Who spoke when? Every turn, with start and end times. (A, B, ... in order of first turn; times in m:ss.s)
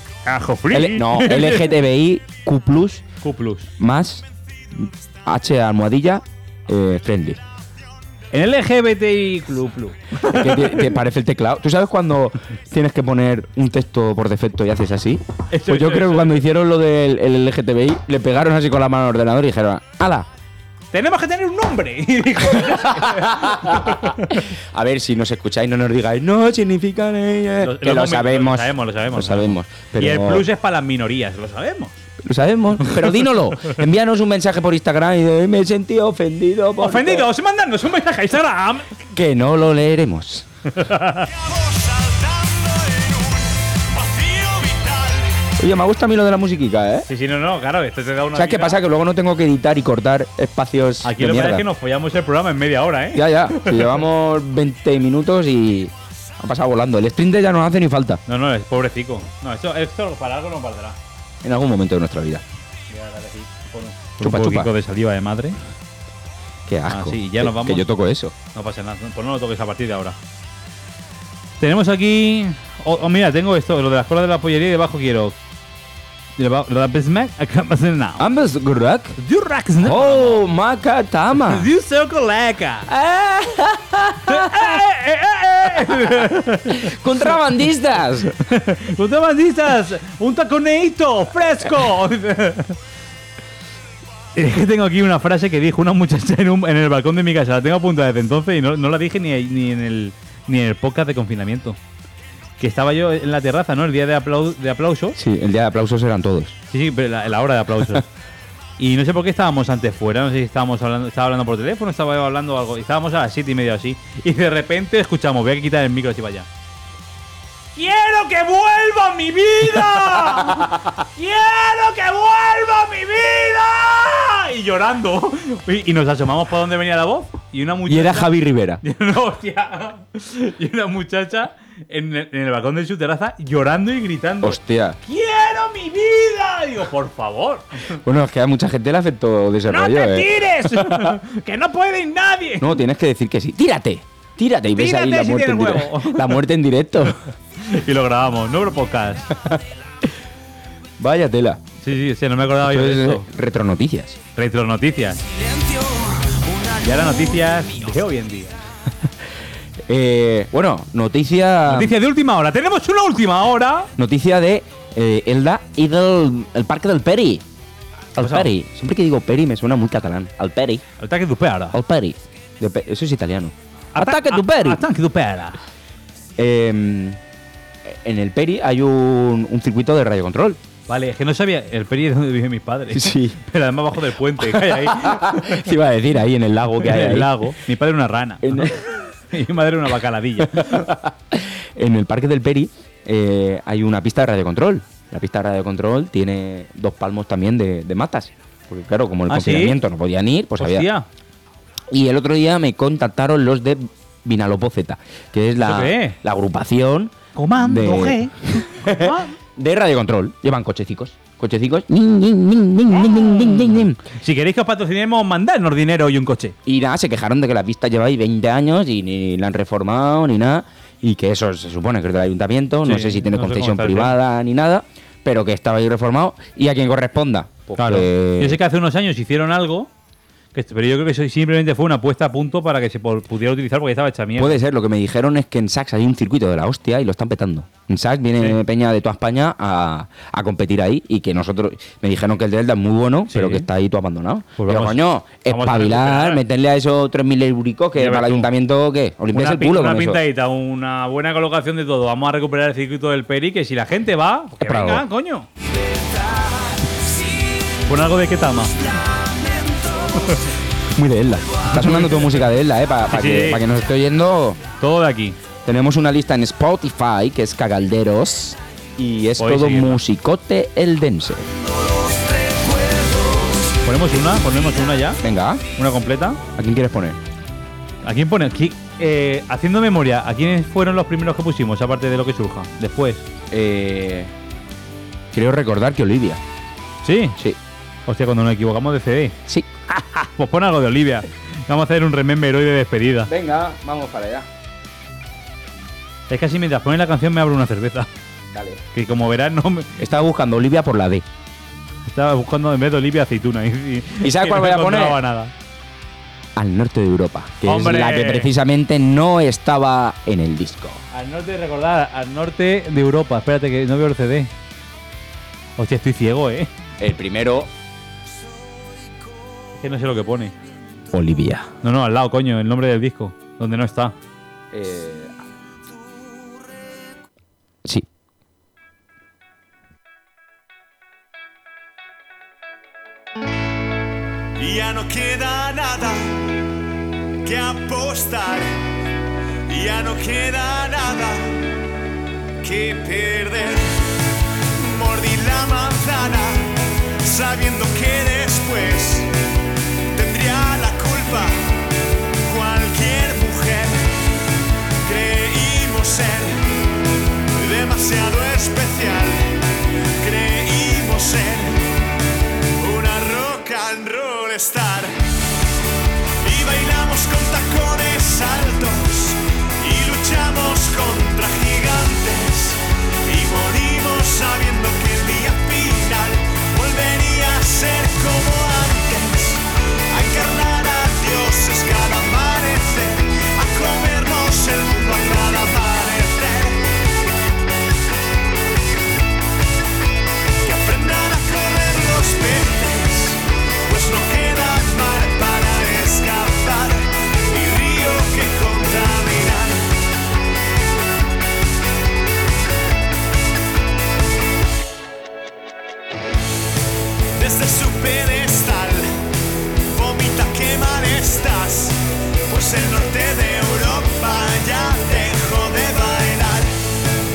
0:00.2-0:01.7 A
0:00.7-0:03.0 B
0:03.2-0:03.7 A
0:03.8-0:07.4 B
0:08.3-0:11.0 A
0:10.2-0:20.3 B
0:15.5-0:16.4 A
0:20.9-0:24.4 A
0:22.6-0:30.4 B
0:27.6-0:31.9 A
0:32.2-0:37.3 B
0:32.8-0:33.7 A
0:36.8-0:38.9 A
0:39.1-0:40.4 B
0:40.7-0:41.3 A
0:41.4-0:45.4 C
0:45.6-0:47.1 B
0:47.1-0:48.8 A
0:48.4-0:51.6 B
0:51.0-0:54.0 A
0:53.1-0:58.2 B
0:58.3-1:01.0 A
1:01.4-1:02.4 B
1:02.9-1:05.6 A
1:04.2-1:04.7 B
1:06.7-1:08.3 B
1:06.9-1:07.9 A
1:08.5-1:10.2 A
1:11.6-1:15.4 A
1:16.4-1:18.2 A
1:18.2-1:19.2 B
1:19.2-1:20.4 A
1:19.8-1:21.7 B
1:21.4-1:22.9 A
1:22.9-1:24.8 B
1:24.2-1:27.2 A
1:25.8-1:28.3 B
1:28.3-1:32.8 A
1:34.4-1:41.8 A
1:42.6-1:45.2 A
1:45.1-1:46.6 B
1:46.7-1:48.1 A
1:48.8-1:56.5 A
1:57.7-2:17.8 A
2:07.9-2:08.8 B
2:14.4-2:15.0 B
2:18.0-2:21.2 B
2:19.7-2:22.7 A
2:22.6-2:27.2 B
2:24.7-2:26.4 A
2:27.6-2:29.4 A
2:31.0-2:31.6 B
2:31.8-2:33.2 A
2:32.6-2:34.2 B
2:34.4-2:35.2 A
2:36.7-2:38.6 A
2:39.9-2:41.9 B
2:41.7-2:43.9 A
2:44.0-2:47.4 B
2:48.1-2:50.8 B
2:48.2-2:48.5 A
2:51.0-2:51.8 A
2:51.7-2:54.8 B
2:53.9-2:55.6 A
2:56.4-2:57.2 B
2:57.8-3:00.6 B
3:00.9-3:05.7 A
3:02.9-3:03.4 B
3:04.5-3:07.5 B
3:06.8-3:10.9 A
3:08.4-3:08.8 B
3:10.4-3:20.9 B
3:19.3-3:19.8 A
3:20.6-3:21.1 A
3:21.9-3:34.0 B
3:25.6-3:26.2 A
3:27.4-3:29.4 A
3:33.0-3:36.6 A
3:36.6-3:48.6 B
3:42.8-3:44.2 A
3:47.8-3:49.9 A
3:50.5-3:54.6 A
3:54.4-4:10.2 B
4:03.3-4:03.6 A
4:04.6-4:06.4 A
4:08.0-4:08.5 A
4:09.3-4:15.5 A
4:14.6-4:15.0 B
4:17.9-4:18.8 A
4:20.9-4:24.6 B
4:21.7-4:22.4 A
4:23.1-4:23.6 A
4:24.8-4:25.4 A
4:25.6-4:31.5 B
4:29.4-4:30.0 A
4:32.5-4:32.8 C
4:33.8-4:35.2 A
4:35.2-4:35.6 B
4:35.7-4:36.4 A
4:36.6-4:37.2 B
4:38.0-4:43.2 A
4:43.5-4:44.3 B
4:45.3-4:46.4 B
4:47.0-4:47.4 A
4:48.1-4:49.4 A
4:49.9-4:53.3 A
4:53.3-4:54.5 B
4:56.3-4:58.1 A
4:58.5-4:58.8 B
4:58.9-4:59.9 A
5:00.0-5:01.2 B
5:02.1-5:05.5 A
5:04.2-5:05.2 B
5:06.6-5:11.0 B
5:07.6-5:08.5 A
5:11.1-5:14.5 A
5:15.8-5:16.7 A
5:17.0-5:17.7 B
5:19.8-5:20.5 A
5:21.1-5:21.7 B
5:21.8-5:24.2 A
5:24.7-5:25.3 B
5:34.6-5:36.4 C
5:37.4-5:38.7 C
5:39.7-5:41.5 C
5:42.6-5:44.0 C
5:44.8-5:46.7 C
5:47.2-5:49.3 C
5:50.1-5:51.5 C
5:52.4-5:54.0 C
5:55.0-5:56.6 C
5:57.6-5:59.5 C
6:00.2-6:01.8 C
6:02.8-6:05.1 C
6:06.4-6:26.8 C
6:30.6-6:39.9 C
6:47.4-6:49.0 C
6:49.9-6:56.7 C